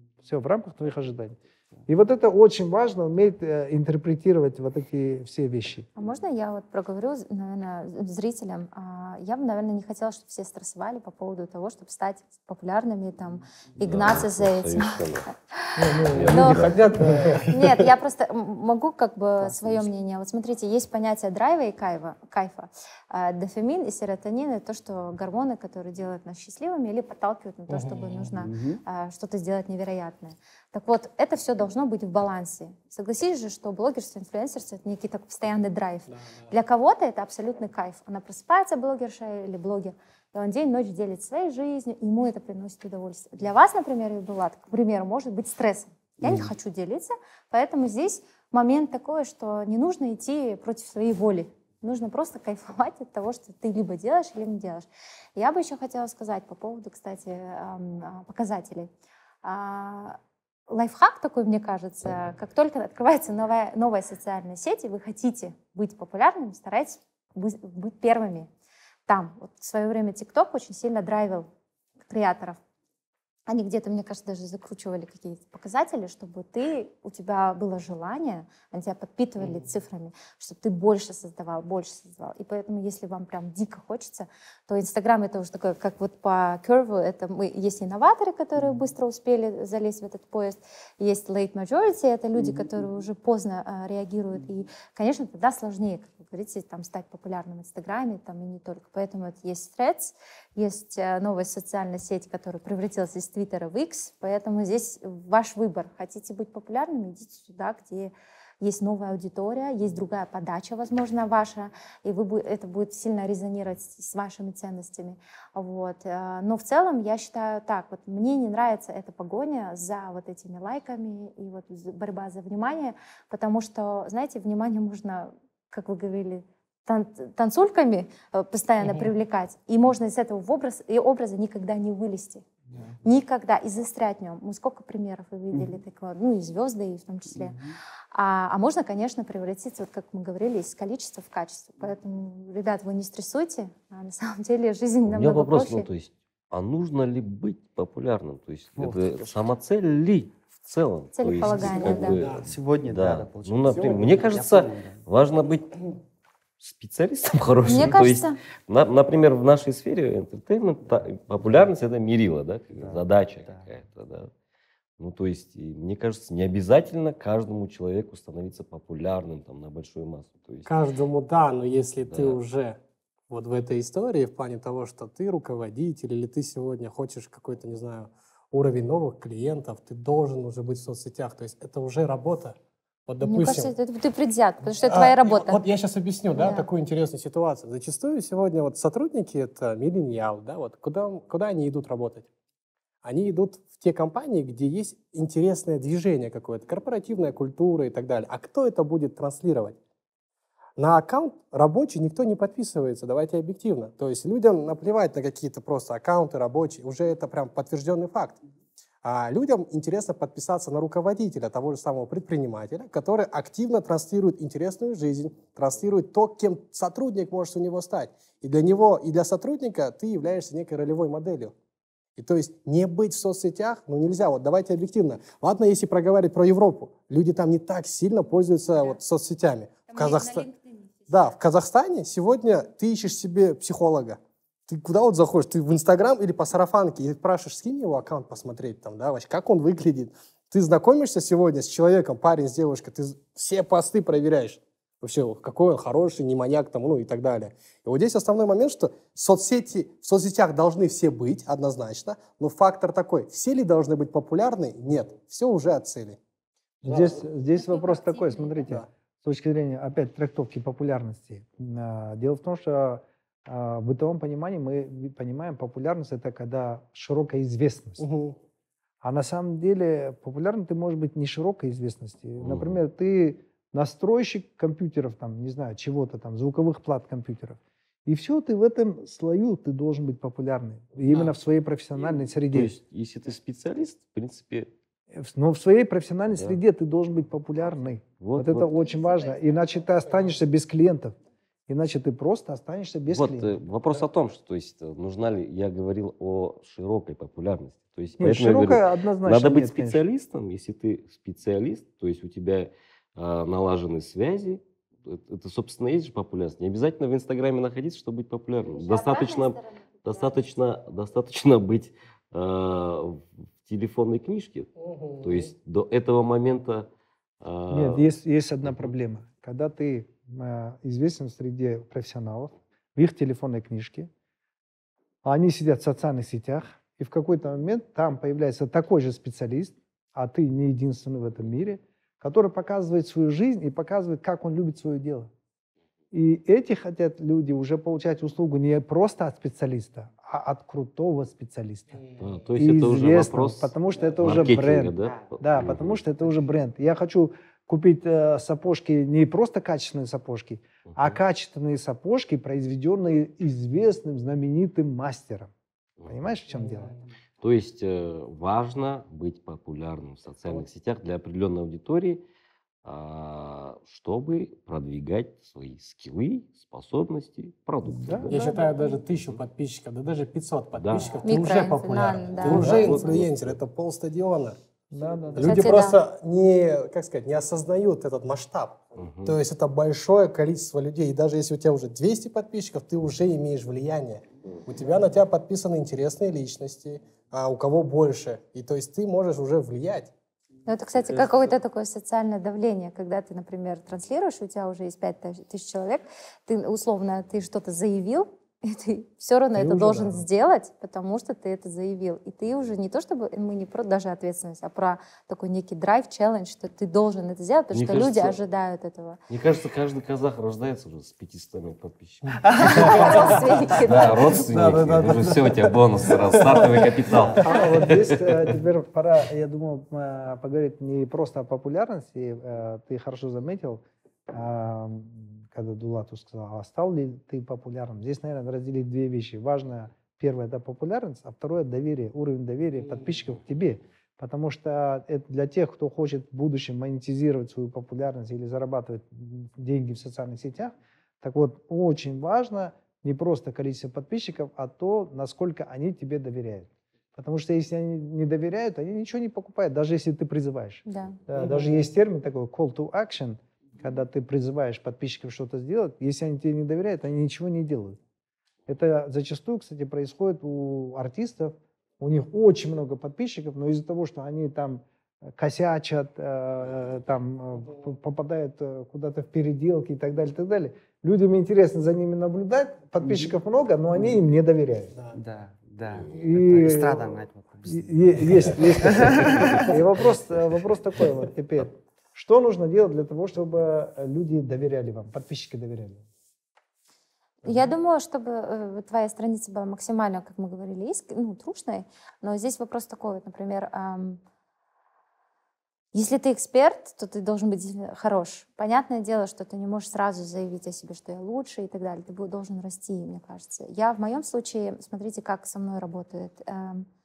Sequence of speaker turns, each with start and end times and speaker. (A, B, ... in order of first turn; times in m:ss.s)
0:00.2-0:05.9 A
0:06.0-0:16.9 B
0:13.8-0:15.3 C
0:15.8-0:17.5 A
0:16.0-0:17.8 D
0:16.1-0:16.7 C
0:17.4-0:58.9 B
0:19.4-0:19.9 E
0:27.7-0:28.4 D
0:28.4-0:28.8 E
0:36.1-0:36.5 D
0:46.2-0:46.5 E
0:59.4-1:00.2 B
1:00.7-1:08.5 B
1:09.1-1:11.5 B
1:12.1-1:12.6 B
1:13.5-2:12.4 B
2:08.8-2:09.1 D
2:13.0-2:17.6 B
2:18.1-2:25.9 B
2:25.1-2:35.8 C
2:28.8-2:29.5 E
2:31.2-2:32.2 B
2:31.6-2:32.5 D
2:31.9-2:35.0 E
2:36.6-2:44.3 C
2:37.6-2:38.4 B
2:42.8-2:43.6 E
2:45.0-2:50.7 C
2:50.6-2:52.8 D
2:52.1-2:52.4 C
2:53.3-3:02.6 D
3:03.1-3:03.8 D
3:03.2-3:05.6 B
3:04.8-3:12.3 D
3:06.4-3:06.7 B
3:13.0-3:19.8 D
3:20.8-3:28.4 D
3:29.0-3:41.5 D
3:42.2-3:50.5 D
3:49.9-3:51.4 B
3:51.1-4:16.2 D
4:16.8-4:28.0 A
4:16.8-4:17.2 D
4:17.6-4:18.7 B
4:28.0-4:28.4 D
4:29.0-4:42.8 A
4:32.4-4:32.8 C
4:41.1-4:41.4 D
4:42.5-4:44.7 C
4:45.1-4:51.2 A
4:48.2-4:48.7 C
4:48.8-4:49.4 B
4:51.7-4:53.6 A
4:53.1-5:14.7 C
4:58.2-5:00.0 A
5:08.6-5:10.3 B
5:14.8-5:15.5 D
5:15.2-5:16.9 C
5:17.4-5:18.0 C
5:17.7-5:24.1 A
5:18.6-5:18.9 C
5:25.2-5:35.3 A
5:36.1-5:42.0 A
5:42.0-5:42.4 D
5:42.2-5:46.0 C
5:42.6-5:55.5 A
5:50.9-5:51.2 C
5:56.0-5:56.3 C
5:56.1-5:56.9 A
5:56.5-5:56.9 D
5:57.4-6:02.2 C
6:02.8-6:08.3 C
6:07.8-6:08.3 A
6:08.2-6:14.6 D
6:08.3-6:09.0 B
6:10.8-6:11.2 C
6:11.2-6:13.2 B
6:12.4-6:13.6 C
6:14.9-6:15.8 A
6:15.3-6:30.1 D
6:15.4-6:16.0 B
6:19.0-6:19.4 C
6:30.7-6:49.2 B
6:31.1-6:31.5 D
6:39.6-6:40.1 D
6:47.7-6:48.4 C
6:49.3-6:58.4 C
6:52.5-6:52.8 E
6:52.5-6:54.7 B
6:52.7-6:53.3 A
6:54.5-6:56.7 A
6:57.4-7:38.0 A
7:12.8-7:13.2 D
7:30.8-7:31.2 B
7:31.4-7:31.7 D
7:38.7-7:55.0 A
7:55.1-7:59.6 E
7:56.1-7:57.1 A
7:57.7-8:06.0 A
8:07.4-8:14.2 B
8:15.9-8:26.9 B